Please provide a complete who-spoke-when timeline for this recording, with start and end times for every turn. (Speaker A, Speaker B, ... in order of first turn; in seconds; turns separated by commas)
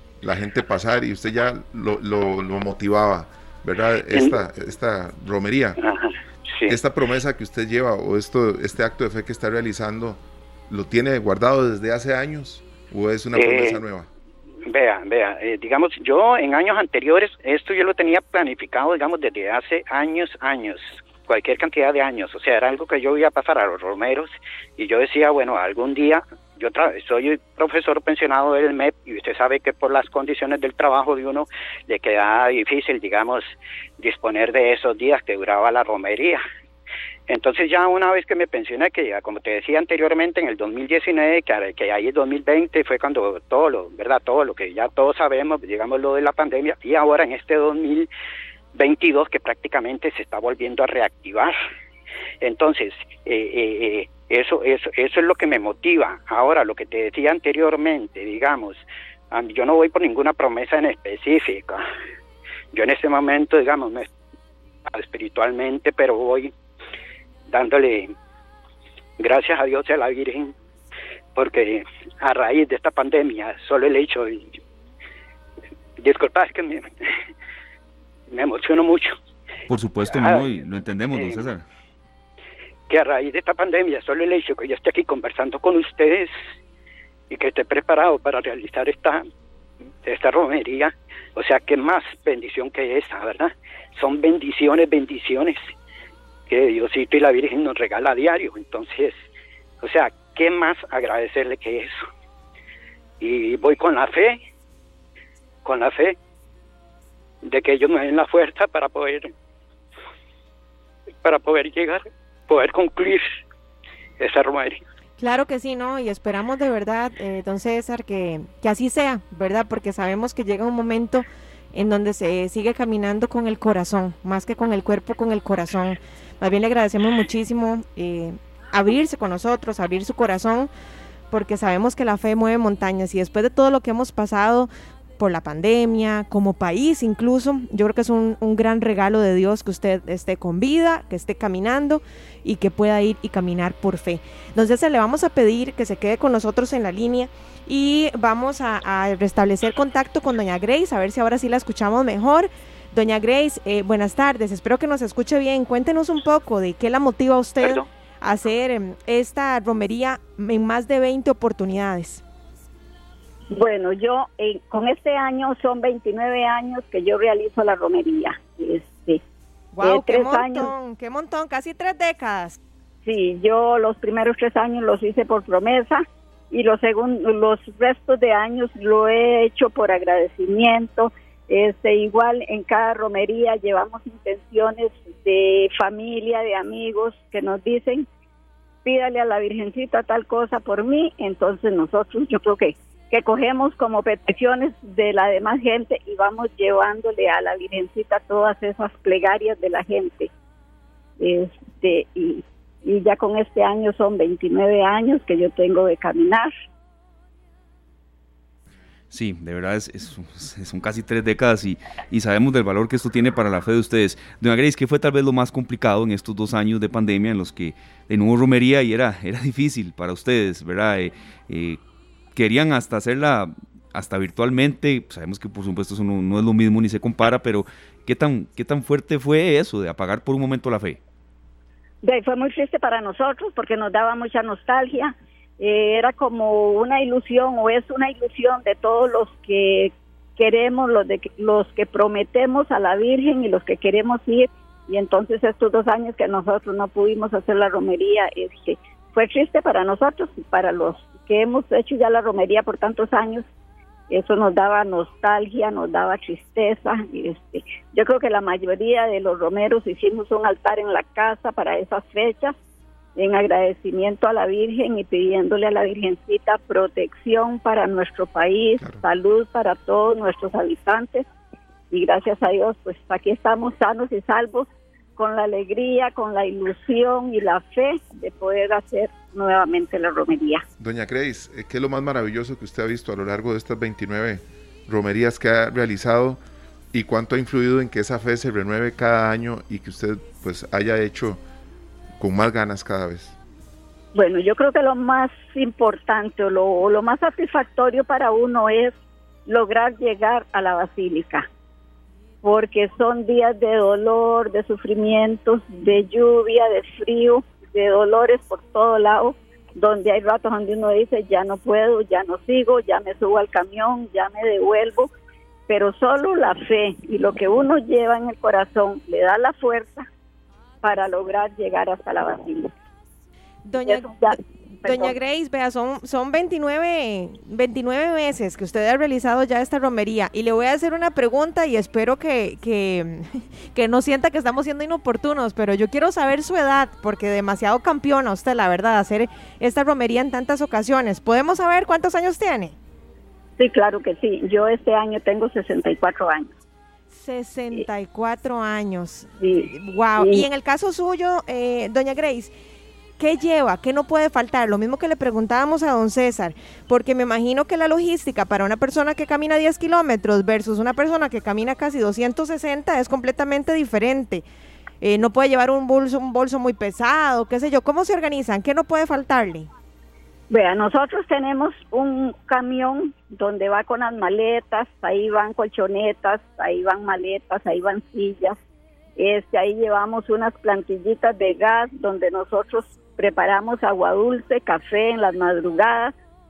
Speaker A: 0.2-5.8, Speaker B: 4.1-4.4, Speaker B: 5.8-6.8, Speaker A: 6.7-14.1, Speaker B: 13.3-13.8, Speaker B: 14.7-36.4, Speaker B: 37.3-48.1, Speaker B: 48.7-51.5, Speaker B: 52.4-61.8, Speaker B: 62.7-64.1, Speaker B: 64.8-66.5, Speaker B: 67.5-68.1, Speaker B: 69.2-70.5, Speaker B: 71.3-74.6, Speaker B: 76.0-77.1, Speaker B: 78.3-79.2, Speaker C: 79.7-81.6, Speaker B: 80.1-80.5, Speaker B: 81.1-81.5, Speaker B: 82.9-86.3, Speaker B: 87.3-89.2, Speaker B: 90.0-95.7, Speaker B: 96.5-99.2, Speaker B: 99.8-102.0, Speaker B: 103.2-104.4, Speaker B: 105.6-106.2, Speaker B: 107.4-109.3, Speaker B: 111.2-113.3, Speaker B: 114.2-114.8, Speaker D: 115.2-130.7, Speaker D: 131.3-162.2, Speaker B: 157.6-157.8, Speaker E: 163.5-169.2, Speaker D: 169.7-172.6, Speaker E: 169.8-170.7, Speaker E: 173.0-188.1, Speaker E: 188.8-200.3, Speaker E: 201.2-206.5, Speaker C: 209.1-221.8, Speaker C: 222.3-231.0, Speaker E: 232.0-253.4, Speaker E: 254.1-262.5, Speaker E: 263.1-271.2, Speaker E: 271.9-280.6, Speaker A: 280.8-286.4, Speaker A: 286.9-291.4, Speaker A: 292.2-293.3, Speaker E: 294.1-298.9, Speaker E: 299.5-301.5, Speaker E: 302.4-315.1, Speaker E: 315.7-320.1, Speaker E: 320.8-322.7, Speaker D: 323.6-342.7, Speaker E: 323.8-325.1, Speaker E: 343.6-346.5, Speaker D: 347.1-352.5, Speaker E: 349.4-350.4, Speaker D: 353.2-364.4, Speaker D: 365.0-369.7, Speaker E: 370.5-378.6, Speaker E: 379.2-386.1